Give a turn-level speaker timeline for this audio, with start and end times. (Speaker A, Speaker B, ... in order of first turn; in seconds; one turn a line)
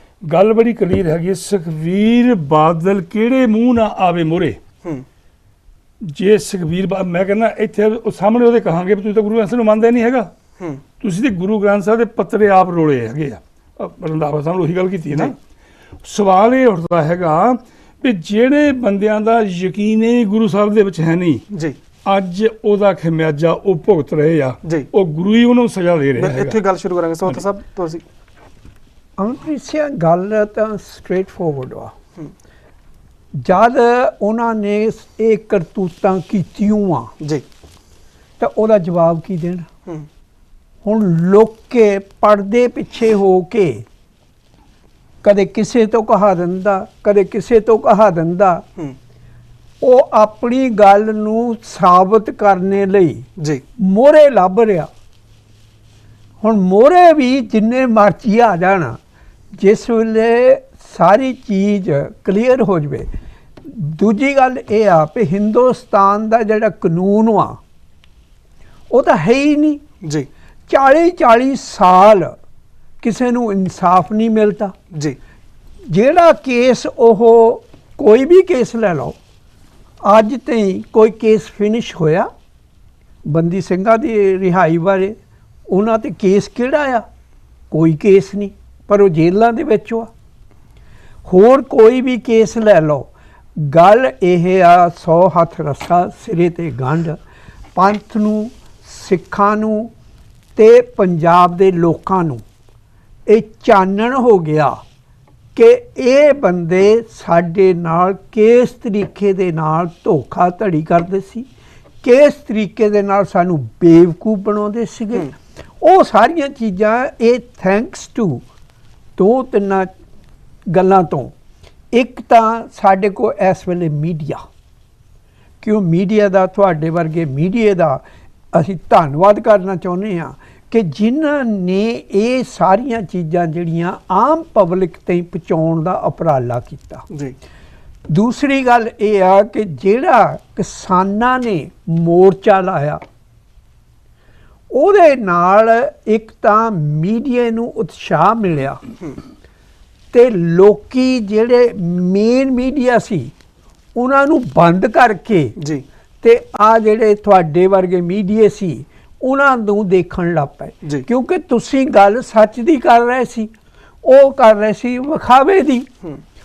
Speaker A: 0.2-4.6
Speaker A: 6.0-10.3
Speaker A: 11.0-15.3
Speaker A: 16.0-21.4
Speaker B: 21.5-21.8
Speaker A: 22.0-26.6
Speaker B: 26.2-28.0
Speaker C: 29.2-31.9
Speaker C: 33.3-37.1
Speaker C: 38.4-39.7
Speaker C: 40.8-43.8
Speaker C: 45.2-48.6
Speaker C: 49.8-53.2
Speaker B: 53.4-53.6
Speaker C: 53.8-54.9
Speaker C: 56.4-59.0
Speaker C: 59.5-63.1
Speaker C: 63.6-67.6
Speaker C: 68.9-69.8
Speaker C: 70.7-72.3
Speaker C: 73.0-74.7
Speaker C: 75.9-79.2
Speaker C: 80.0-82.3
Speaker C: 83.2-85.2
Speaker C: 85.7-87.0
Speaker C: 87.7-90.1
Speaker C: 91.2-97.2
Speaker C: 97.7-99.9
Speaker C: 100.5-102.4
Speaker C: 103.3-104.8
Speaker C: 105.5-111.5
Speaker C: 112.0-118.4
Speaker C: 119.2-119.9
Speaker C: 120.7-121.3
Speaker C: 121.9-124.4
Speaker C: 125.6-137.1
Speaker B: 137.1-137.3
Speaker C: 138.1-143.0
Speaker C: 144.7-148.8
Speaker C: 150.1-153.3
Speaker C: 153.9-155.6
Speaker B: 155.6-155.8
Speaker C: 156.2-163.5
Speaker C: 164.0-165.9